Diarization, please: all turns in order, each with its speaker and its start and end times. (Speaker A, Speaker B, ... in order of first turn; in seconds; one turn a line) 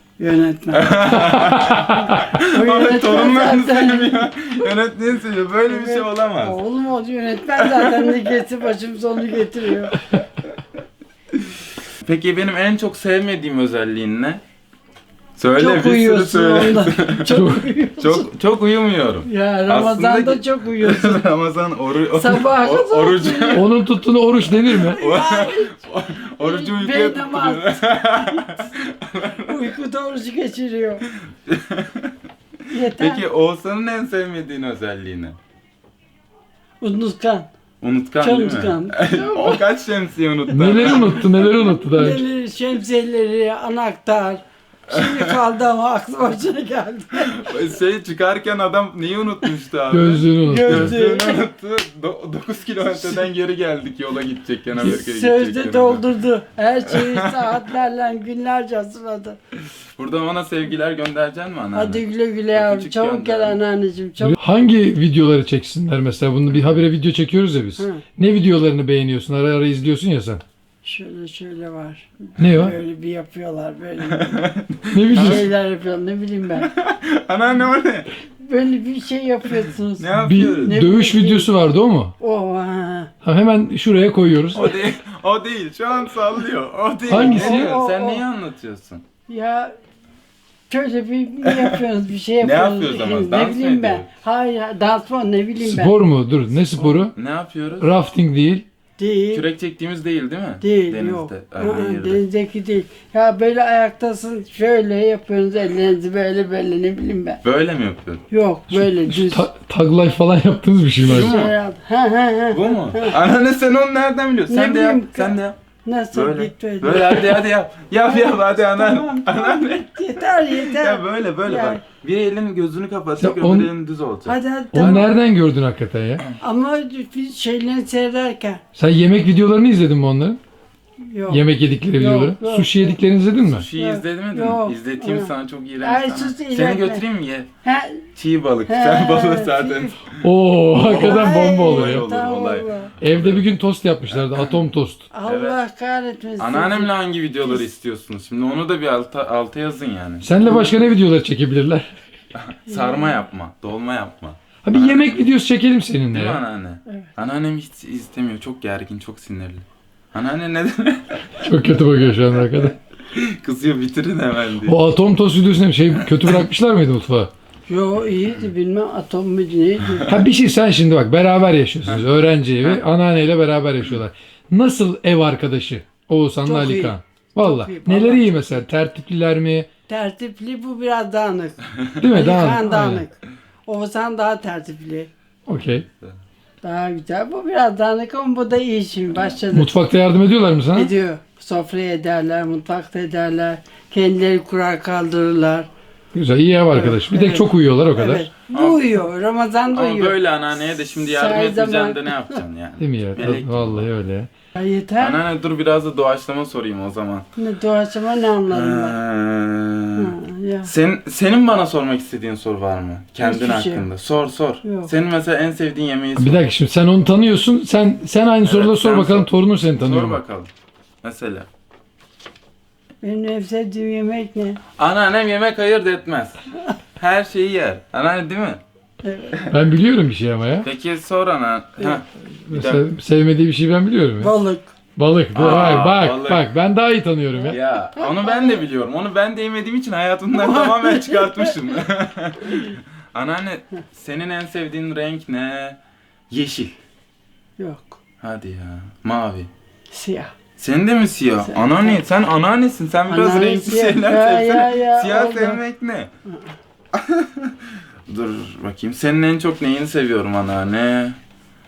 Speaker A: 0.2-1.4
Speaker B: 0.7-6.6
Speaker C: 1.5-2.2
Speaker A: 2.0-4.3
Speaker A: 5.7-10.0
Speaker B: 7.6-8.3
Speaker B: 12.0-14.4
Speaker B: 15.4-17.4
Speaker A: 15.6-18.3
Speaker C: 17.3-17.6
Speaker B: 18.0-23.6
Speaker A: 19.2-21.2
Speaker A: 22.1-23.7
Speaker C: 23.5-25.0
Speaker A: 24.6-25.8
Speaker B: 24.9-29.5
Speaker A: 26.4-28.6
Speaker A: 29.4-31.1
Speaker B: 31.4-32.1
Speaker A: 32.7-33.2
Speaker B: 33.0-35.4
Speaker A: 36.8-37.5
Speaker B: 37.8-41.5
Speaker A: 38.2-39.6
Speaker C: 40.5-42.2
Speaker A: 41.7-47.4
Speaker B: 44.9-45.3
Speaker B: 47.1-56.0
Speaker C: 49.9-50.9
Speaker A: 50.4-51.4
Speaker A: 54.8-59.4
Speaker B: 56.9-57.5
Speaker B: 60.0-63.6
Speaker A: 61.7-64.4
Speaker C: 64.3-70.4
Speaker A: 67.8-68.0
Speaker A: 70.8-74.4
Speaker C: 72.4-72.7
Speaker B: 74.1-75.5
Speaker C: 74.9-75.4
Speaker A: 75.1-76.7
Speaker B: 76.6-78.1
Speaker A: 78.4-81.5
Speaker B: 80.0-80.7
Speaker C: 80.2-82.1
Speaker A: 82.2-83.1
Speaker C: 83.2-84.7
Speaker B: 84.5-89.0
Speaker C: 87.1-87.7
Speaker A: 87.1-88.2
Speaker A: 89.3-89.7
Speaker A: 90.7-96.0
Speaker B: 91.4-91.8
Speaker B: 92.4-94.1
Speaker C: 95.6-97.1
Speaker B: 97.1-97.9
Speaker C: 97.8-98.6
Speaker A: 99.0-99.4
Speaker B: 99.3-102.2
Speaker A: 100.6-107.4
Speaker B: 107.4-108.2
Speaker A: 108.3-109.5
Speaker C: 108.7-111.3
Speaker B: 111.0-111.5
Speaker A: 111.1-113.2
Speaker B: 112.5-115.5
Speaker A: 114.5-117.4
Speaker B: 116.1-119.9
Speaker A: 118.0-121.8
Speaker B: 120.5-125.0
Speaker C: 123.2-123.7
Speaker A: 124.2-125.1
Speaker C: 124.7-126.2
Speaker A: 126.4-128.6
Speaker C: 128.7-130.4
Speaker A: 131.0-133.0
Speaker C: 131.3-133.7
Speaker B: 133.4-137.5
Speaker A: 133.8-137.0
Speaker A: 137.6-138.1
Speaker B: 138.2-140.2
Speaker A: 138.7-140.0
Speaker C: 140.2-142.1
Speaker B: 140.7-143.4
Speaker A: 140.8-142.9
Speaker C: 143.0-145.0
Speaker B: 144.1-144.7
Speaker A: 145.1-146.9
Speaker B: 145.2-145.6
Speaker B: 146.4-150.2
Speaker C: 150.2-151.9
Speaker A: 150.4-150.7
Speaker B: 152.3-155.3
Speaker A: 152.7-153.1
Speaker C: 154.6-156.4
Speaker B: 156.1-161.4
Speaker C: 161.4-162.7
Speaker B: 163.1-164.8
Speaker C: 164.6-167.3
Speaker A: 167.7-170.1
Speaker C: 170.1-179.7
Speaker A: 176.4-178.4
Speaker A: 179.9-185.1
Speaker C: 182.0-183.0
Speaker C: 185.5-185.8
Speaker A: 186.6-189.8
Speaker C: 189.5-190.9
Speaker A: 190.7-195.7
Speaker C: 196.1-198.3
Speaker A: 196.7-202.4
Speaker B: 198.5-199.0
Speaker B: 199.7-203.8
Speaker C: 202.8-204.3
Speaker A: 204.6-205.2
Speaker B: 205.0-207.2
Speaker A: 207.3-209.0
Speaker B: 208.5-216.5
Speaker A: 209.9-210.7
Speaker A: 213.2-213.9
Speaker A: 214.6-214.9
Speaker C: 216.2-220.2
Speaker B: 218.4-220.5
Speaker B: 221.0-221.5
Speaker A: 223.0-224.6
Speaker B: 224.8-226.4
Speaker B: 227.0-228.6
Speaker A: 229.0-229.5
Speaker C: 229.5-230.7
Speaker B: 230.6-232.8
Speaker C: 232.4-234.3
Speaker A: 234.2-234.7
Speaker C: 234.9-237.6
Speaker B: 235.3-236.5
Speaker A: 237.3-238.6
Speaker B: 237.5-245.8
Speaker A: 240.3-241.6
Speaker B: 246.3-246.7
Speaker A: 247.6-248.0
Speaker B: 248.2-249.5
Speaker A: 249.9-250.3
Speaker B: 250.6-256.1
Speaker A: 251.4-252.0
Speaker A: 253.1-255.6
Speaker B: 256.9-257.6
Speaker B: 258.1-261.2